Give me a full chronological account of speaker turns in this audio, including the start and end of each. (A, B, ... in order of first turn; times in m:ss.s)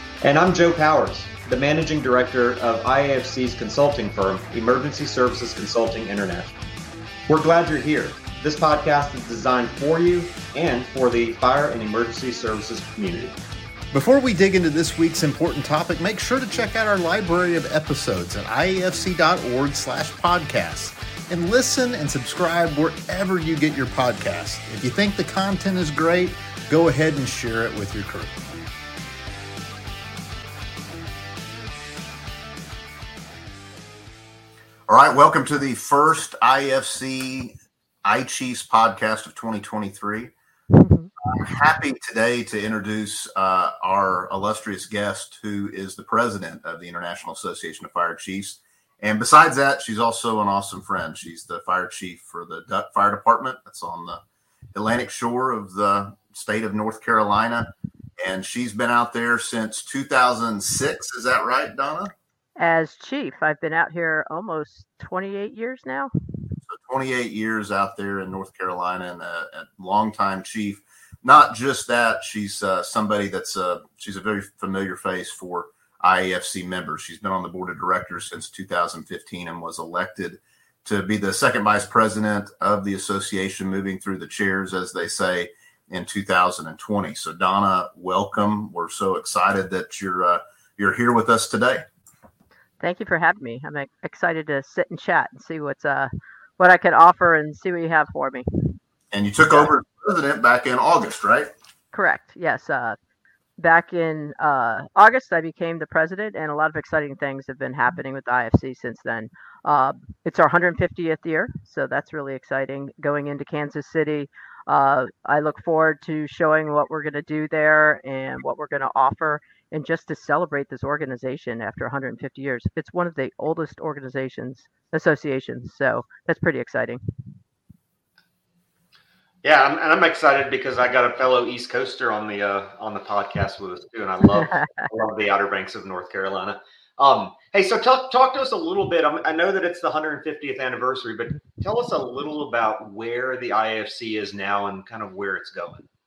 0:00.2-0:06.6 A
0:07.3-0:13.3 A
0:13.9-0:28.4 B
0:34.9-0:40.3 B
0:40.7-0:41.1 C
0:41.2-0:54.2 B
0:54.7-1:02.1 B
1:02.6-1:06.1 C
1:06.6-1:31.8 B
1:32.8-1:38.8 C
1:39.1-1:41.5 B
1:41.9-1:43.0 C
1:43.6-2:07.0 C
2:09.4-2:25.8 A